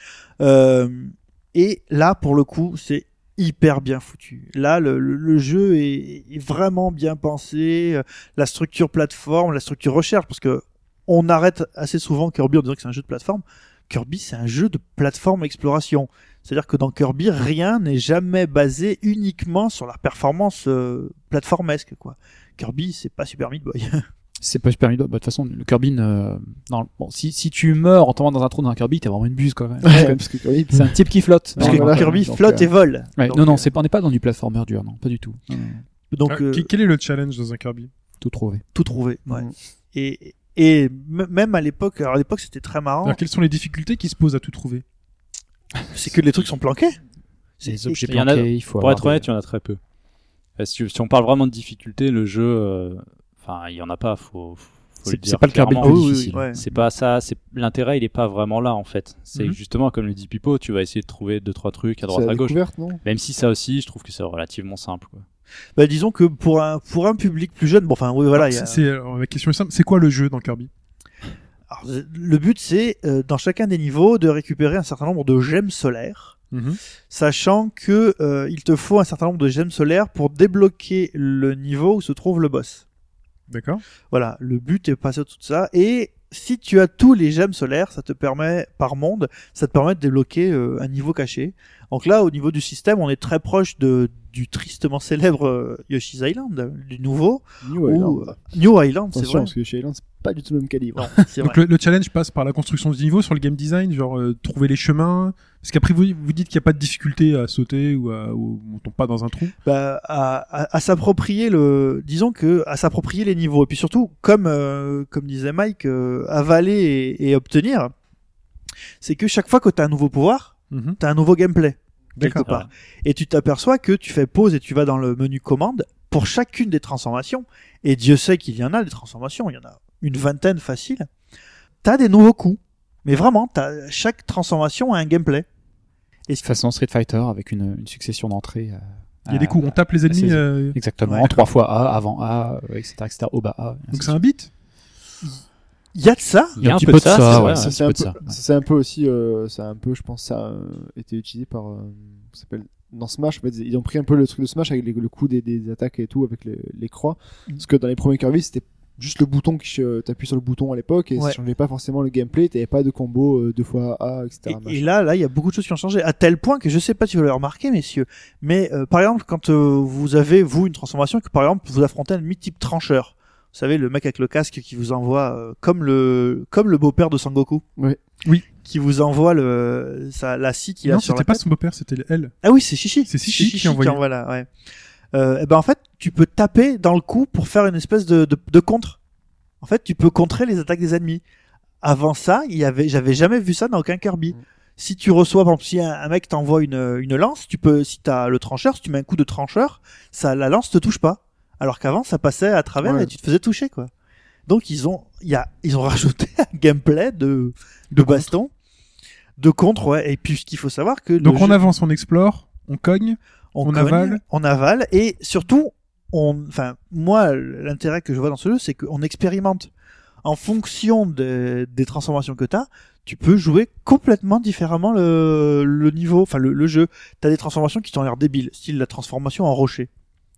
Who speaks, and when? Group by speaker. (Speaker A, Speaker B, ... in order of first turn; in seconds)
Speaker A: 0.4-24.0, 31.6-33.7, 36.1-36.7, 38.7-43.2, 45.9-47.0, 47.6-48.1, 55.8-56.6, 65.8-68.8, 71.7-76.4, 77.1-82.8, 84.1-99.5, 101.0-101.6, 109.6-117.9, 119.0-131.1, 131.8-135.4, 141.1-141.4, 145.9-146.6, 164.5-177.6, 178.5-181.4, 182.4-184.5, 185.1-189.0, 189.6-191.2, 191.8-203.9, 204.5-208.5, 209.4-211.6, 213.5-219.7, 220.2-229.9
Speaker B: 24.4-35.8, 38.2-38.6, 47.6-49.3, 55.0-56.8, 136.4-144.2, 146.6-148.4
Speaker C: 29.8-32.3, 62.1-63.0, 97.6-98.4, 99.1-101.2, 147.2-164.8, 202.8-203.1
Speaker D: 36.3-37.9, 43.0-44.8, 68.3-70.7, 76.5-76.8, 83.5-83.8, 101.4-109.5, 120.7-121.0, 122.2-122.5, 139.3-140.8, 143.9-144.5, 180.8-182.3, 183.1-184.0, 207.9-208.3, 211.2-214.2
Speaker E: 48.1-49.8, 50.6-65.2, 122.4-122.7, 146.6-147.8